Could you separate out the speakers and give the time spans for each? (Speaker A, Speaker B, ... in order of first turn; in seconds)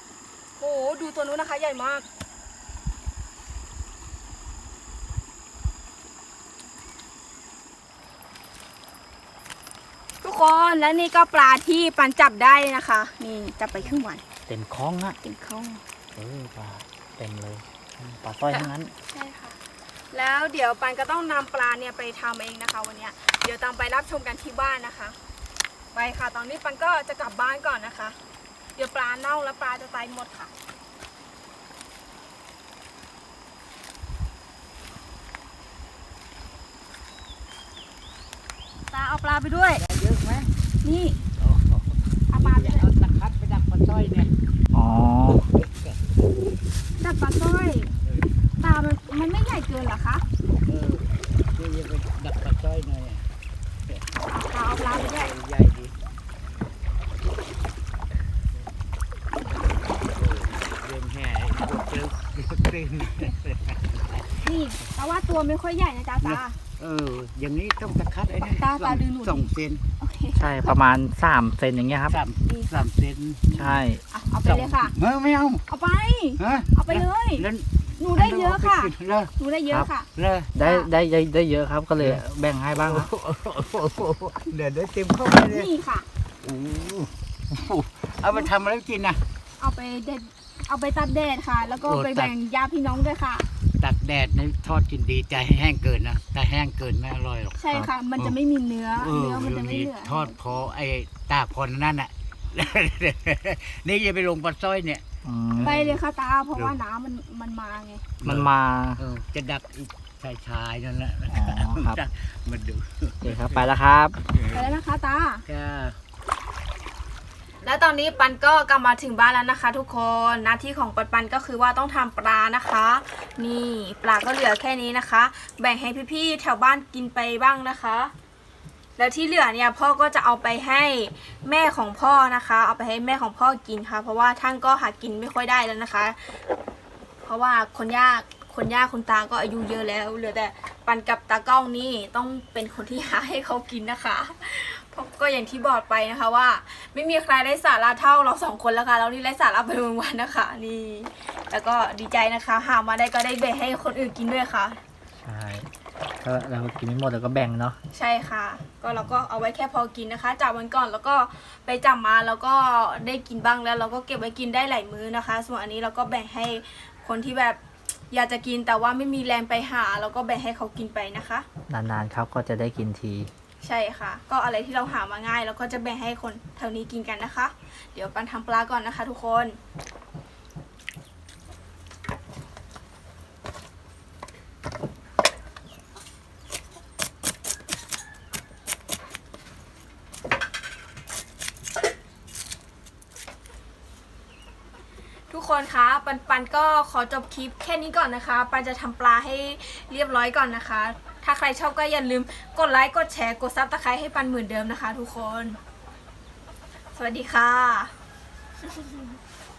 Speaker A: 0.6-2.1, 10.2-14.2, 15.2-15.8, 18.5-19.6, 20.1-25.2, 25.9-28.2, 28.8-30.5, 38.9-39.8, 40.8-41.2, 42.3-42.9, 47.0-47.9, 48.6-50.2, 54.3-55.4, 64.4-66.6, 68.6-70.7, 72.5-72.8, 74.1-75.0, 75.7-77.5, 78.0-80.1, 80.6-80.9, 85.4-86.1, 89.6-93.5, 97.6-100.3, 105.6-108.0, 114.5-115.4, 117.6-128.1, 129.0-136.2, 137.2-154.8, 157.9-167.6, 168.1-171.5, 173.6-179.6, 195.3-205.6, 206.9-207.9, 208.7-209.0
Speaker B: 14.5-15.2, 16.1-18.9, 44.7-45.4, 70.3-72.2, 73.5-74.7, 80.5-83.1, 105.2-105.8, 108.2-109.0, 111.3-112.0, 113.2-114.2, 155.2-155.7, 156.2-157.8, 171.7-173.3
Speaker C: 39.8-40.5, 41.4-44.3, 45.4-46.3, 48.0-48.3, 50.6-53.3, 54.7-56.0, 59.6-64.5, 66.2-69.8, 72.1-73.8, 74.8-75.6, 76.4-79.3, 80.2-80.5, 82.8-85.7, 86.4-89.2, 91.8-92.3, 93.8-98.4, 99.0-106.0, 108.2-113.7, 114.3-114.8, 115.5-116.0